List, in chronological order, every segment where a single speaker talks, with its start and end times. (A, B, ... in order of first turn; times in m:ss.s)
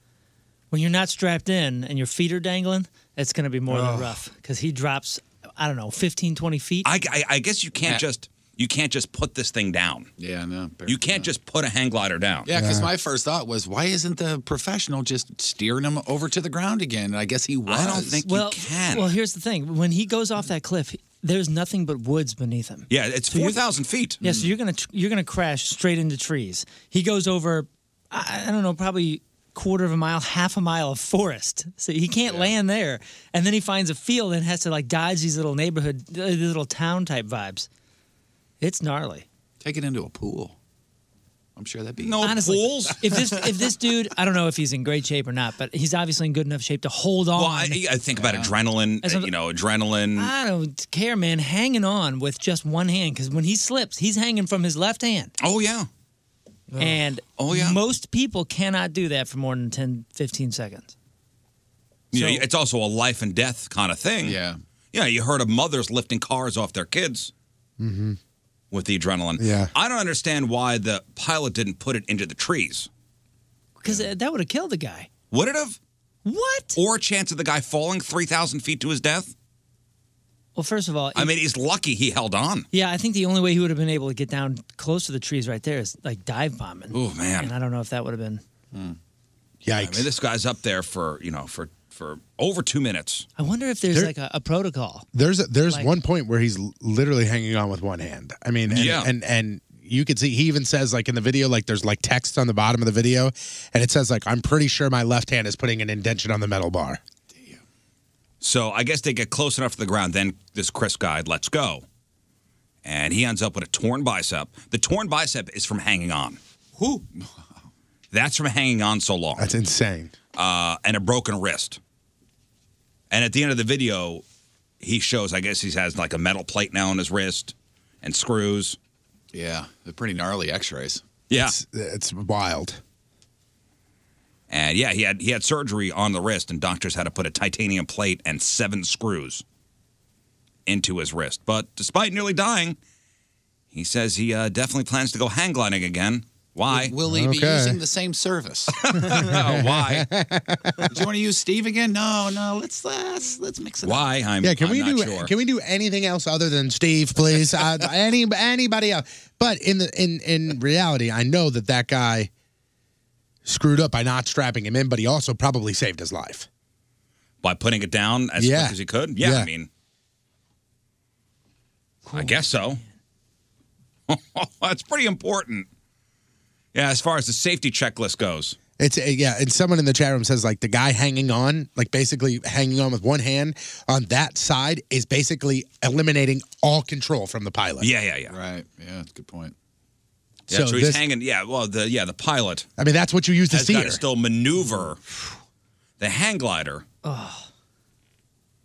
0:00.7-0:06.9 A
0:03.7-0:04.0 B
0:06.8-0:10.1 C
0:10.2-0:11.3 D
0:10.9-0:12.5 C
0:12.5-0:18.2 D
0:12.6-0:12.9 B
0:17.7-0:19.1 C
0:18.3-0:23.6 A
0:22.9-0:24.2 C
0:24.2-0:37.7 A
0:24.2-0:24.5 D
0:32.3-0:32.5 D
0:38.6-0:39.3 A
0:39.6-0:40.6 D
0:41.6-0:42.3 D
0:42.0-0:43.0 C
0:42.2-0:47.8 A
0:47.4-0:50.3 C
0:48.2-0:48.6 D
0:49.0-0:49.3 A
0:50.2-0:55.3 A
0:55.4-0:55.9 C
0:56.8-1:01.0 A
0:57.4-0:57.8 C
1:02.1-1:04.4 C
1:02.1-1:02.4 A
1:04.2-1:04.6 D
1:04.9-1:07.3 C
1:07.8-1:08.2 B
1:08.7-1:12.9 C
1:09.4-1:09.7 B
1:13.8-1:15.1 A
1:15.3-1:15.8 C
1:16.2-1:16.8 A
1:16.8-1:19.3 C
1:20.6-1:21.3 A
1:21.2-1:22.7 C
1:22.7-1:28.4 A
1:26.9-1:27.5 C
1:29.6-1:30.1 B
1:29.8-1:33.3 C
1:33.4-1:35.1 A
1:35.1-1:47.0 B
1:38.7-1:39.1 C
1:47.3-1:47.6 D
1:48.4-1:51.8 C
1:52.8-1:57.0 C
1:58.1-1:59.5 C
1:59.4-2:00.1 B
2:00.4-2:01.8 C
2:03.1-2:04.2 C
2:04.8-2:08.8 C
2:09.3-2:11.0 D
2:11.3-2:11.6 C
2:11.4-2:12.8 B
2:14.5-2:19.4 C
2:20.7-2:22.8 C
2:23.7-2:27.0 C
2:26.7-2:28.8 D
2:27.1-2:27.8 B
2:28.8-2:30.1 C
2:29.1-2:30.9 B
2:30.9-2:34.0 D
2:33.8-2:35.3 C
2:34.4-2:42.3 B
2:43.5-2:46.5 B
2:47.4-2:49.7 C
2:48.4-2:49.5 B
2:52.1-2:52.9 A
2:52.1-2:52.8 C
2:54.1-2:55.7 C
2:56.7-2:58.6 C
2:58.8-3:07.9 B
3:07.8-3:08.3 C
3:08.3-3:09.6 D
3:10.5-3:12.7 C
3:10.5-3:11.0 B
3:12.8-3:14.0 B
3:13.5-3:15.0 C
3:16.0-3:16.8 C
3:17.0-3:17.5 A